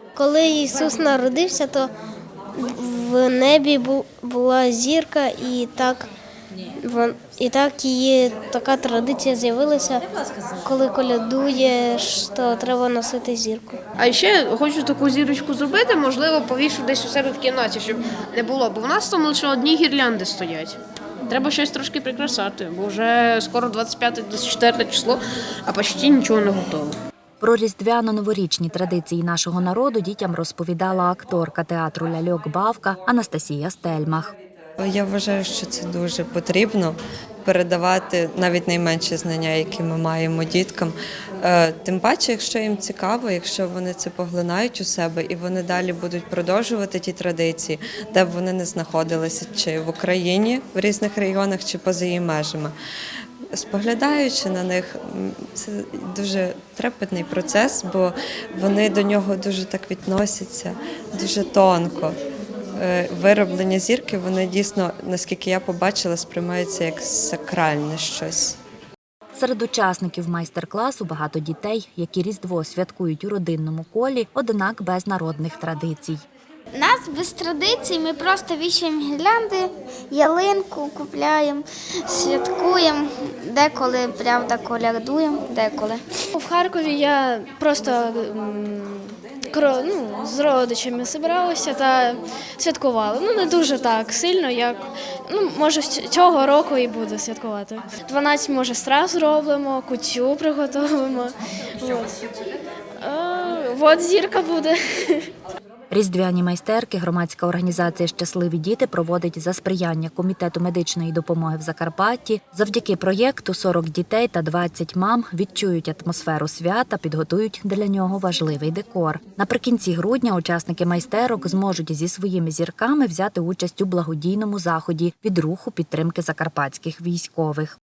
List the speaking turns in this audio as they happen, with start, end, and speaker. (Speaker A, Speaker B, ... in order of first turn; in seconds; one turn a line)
Speaker A: 0.2-1.9
Speaker A: 2.6-6.1
Speaker A: 6.8-10.0
Speaker A: 10.7-13.8
Speaker B: 14.0-26.9
Speaker C: 27.4-34.3
Speaker D: 34.8-52.7
Speaker D: 53.5-62.1
Speaker D: 62.8-68.6
Speaker C: 69.4-76.2
Speaker E: 76.8-86.0
Speaker F: 86.3-102.2
Speaker F: 103.0-105.3
Speaker C: 105.9-127.8